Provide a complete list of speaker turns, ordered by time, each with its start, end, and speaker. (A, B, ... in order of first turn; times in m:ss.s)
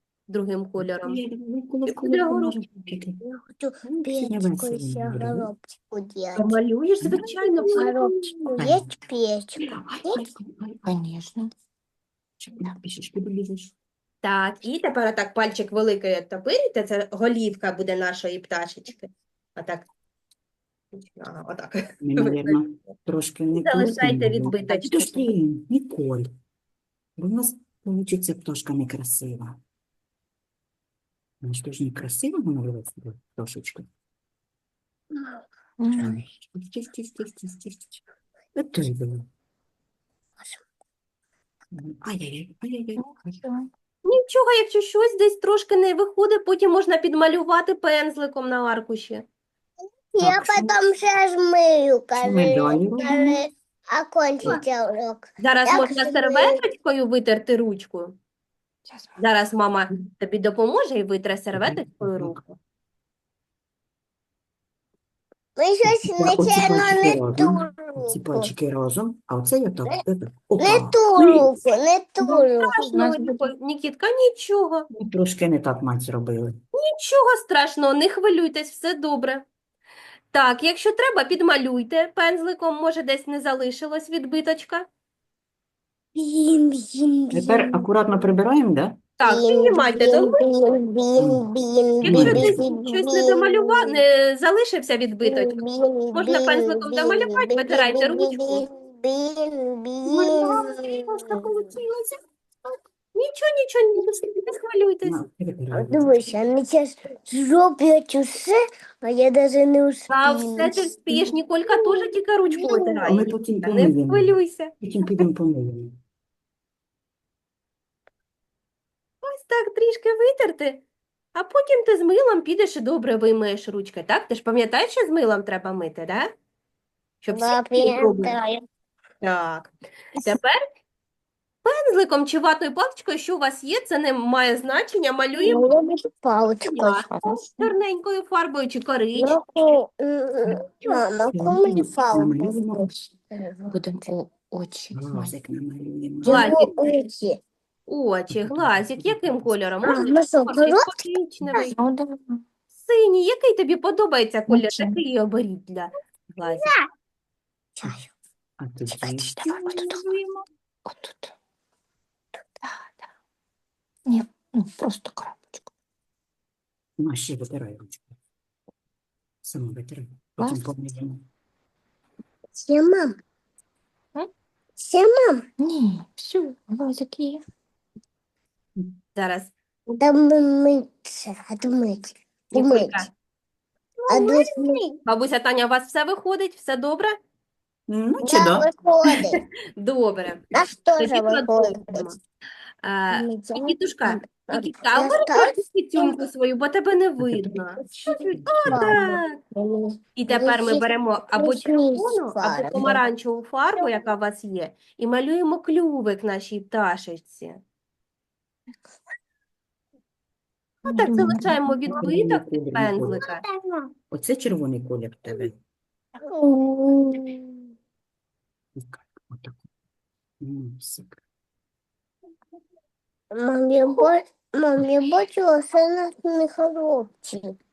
0:00.3-0:01.2 A
0:00.8-0:03.2 B
0:01.9-0:02.6 A
0:03.2-0:06.6 C
0:03.8-0:05.5 B
0:06.4-0:08.1 A
0:07.0-0:07.8 B
0:07.6-0:10.3 C
0:08.6-0:08.9 B
0:09.6-0:10.9 B
0:10.8-0:11.5 D
0:12.4-0:13.7 B
0:14.2-0:19.9 A
0:20.9-0:22.6 A
0:22.0-0:26.3 B
0:23.5-0:25.3 A
0:27.2-0:29.6 B
0:31.4-0:33.9 B
0:35.1-0:35.4 C
0:35.8-0:36.2 D
0:36.0-0:38.0 B
0:38.6-0:39.3 B
0:41.7-0:43.2 B
0:43.0-0:43.7 D
0:44.0-0:49.2 A
0:50.1-0:56.6 C
0:50.2-0:50.7 B
0:52.2-0:53.4 B
0:55.4-0:58.2 A
0:58.9-0:59.2 D
0:59.2-1:02.6 A
1:01.5-1:02.4 B
1:05.6-1:08.5 C
1:05.8-1:11.5 B
1:10.6-1:13.0 C
1:12.2-1:14.9 A
1:12.9-1:13.5 D
1:15.0-1:16.6 B
1:16.8-1:19.5 A
1:20.3-1:24.9 A
1:26.2-1:27.8 C
1:27.3-1:29.0 B
1:29.2-1:30.4 A
1:29.2-1:34.0 C
1:31.2-1:31.5 B
1:32.0-1:35.6 A
1:32.0-1:32.6 B
1:35.2-1:41.4 C
1:36.1-1:38.6 A
1:40.1-1:42.2 A
1:43.1-1:45.2 A
1:45.0-1:46.3 B
1:45.7-1:53.0 C
1:50.1-1:54.7 A
1:53.0-1:56.0 B
1:59.2-2:06.3 A
2:07.2-2:08.4 A
2:07.3-2:08.6 C
2:09.2-2:09.7 A
2:10.2-2:10.6 A
2:11.6-2:15.7 A
2:15.4-2:17.4 C
2:16.6-2:17.1 A
2:17.0-2:17.6 D
2:17.6-2:19.4 A
2:19.2-2:22.8 C
2:21.3-2:22.9 B
2:23.3-2:23.8 C
2:23.7-2:25.4 D
2:24.9-2:26.6 B
2:26.2-2:27.4 C
2:26.2-2:26.7 A
2:27.9-2:31.8 A
2:28.3-2:29.9 B
2:29.8-2:31.7 C
2:31.7-2:32.4 D
2:32.8-2:36.7 A
2:34.5-2:35.0 D
2:36.4-2:36.7 C
2:37.8-2:38.1 C
2:38.6-2:40.4 B
2:38.9-2:40.1 D
2:40.9-2:41.3 D
2:42.6-2:43.0 D
2:44.1-2:45.7 D
2:47.0-2:48.1 B
2:49.4-2:51.2 B
2:50.4-2:50.6 D
2:52.6-2:53.1 C
2:54.8-2:55.4 C
2:55.6-2:57.4 D
2:59.2-2:59.5 A
2:59.9-3:03.1 C
3:02.5-3:03.1 A
3:04.1-3:04.9 C
3:04.2-3:04.4 D
3:05.0-3:07.2 A
3:07.9-3:08.7 B
3:08.2-3:09.4 C
3:09.8-3:10.4 A
3:10.5-3:12.1 C
3:11.0-3:12.2 A
3:12.8-3:19.3 A
3:13.1-3:16.2 C
3:17.2-3:19.1 B
3:18.0-3:20.8 C
3:20.2-3:27.6 A
3:21.4-3:23.0 C
3:23.8-3:24.0 C
3:30.8-3:33.4 A
3:30.9-3:31.9 D
3:31.9-3:33.3 B
3:33.2-3:33.9 C
3:34.1-3:35.6 B
3:36.3-3:37.7 C
3:38.8-3:39.6 B
3:40.4-3:41.2 B
3:43.3-3:47.6 C